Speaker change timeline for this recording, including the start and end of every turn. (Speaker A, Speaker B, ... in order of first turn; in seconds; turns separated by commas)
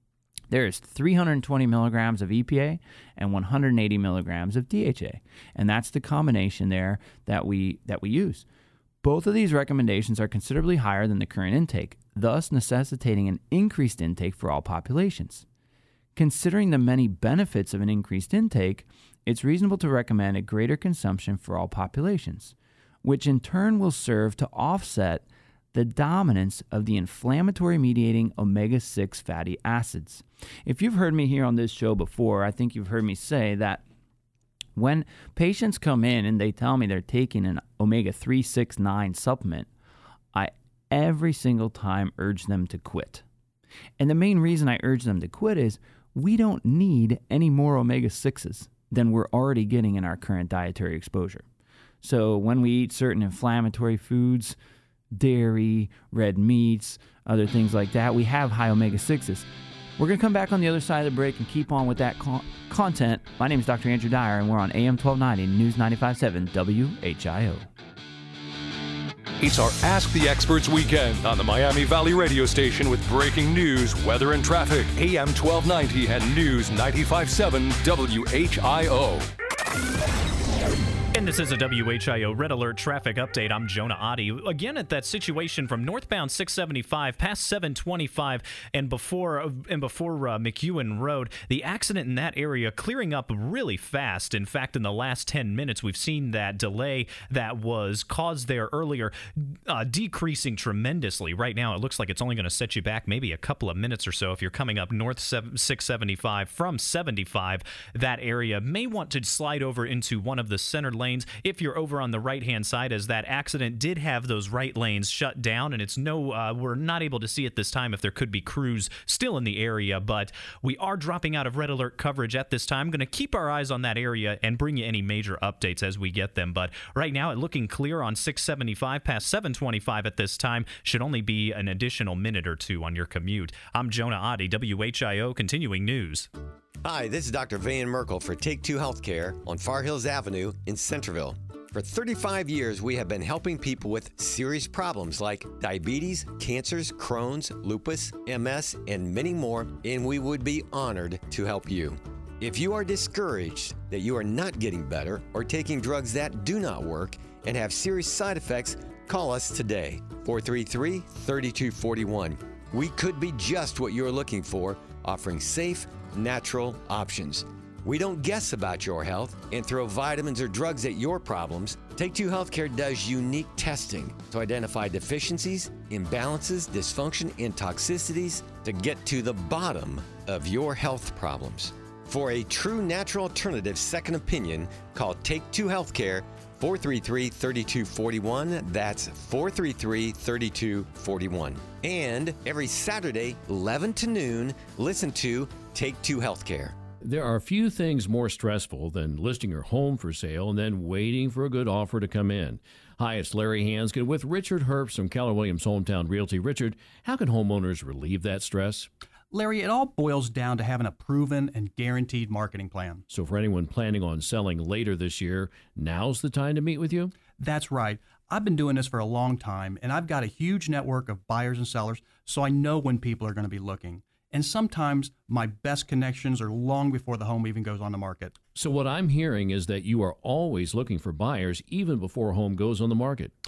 Speaker A: 0.5-8.4, Speaker A: 9.0-15.4, Speaker A: 16.2-33.8, Speaker A: 34.8-39.7, Speaker A: 40.3-43.2, Speaker A: 44.0-51.5, Speaker A: 52.0-54.6, Speaker A: 55.1-59.5, Speaker A: 60.0-67.7, Speaker B: 69.4-79.3, Speaker C: 81.1-136.3, Speaker D: 136.8-196.8, Speaker E: 197.0-208.9, Speaker F: 209.3-213.0, Speaker E: 213.1-217.1, Speaker F: 217.4-228.3, Speaker E: 228.6-233.3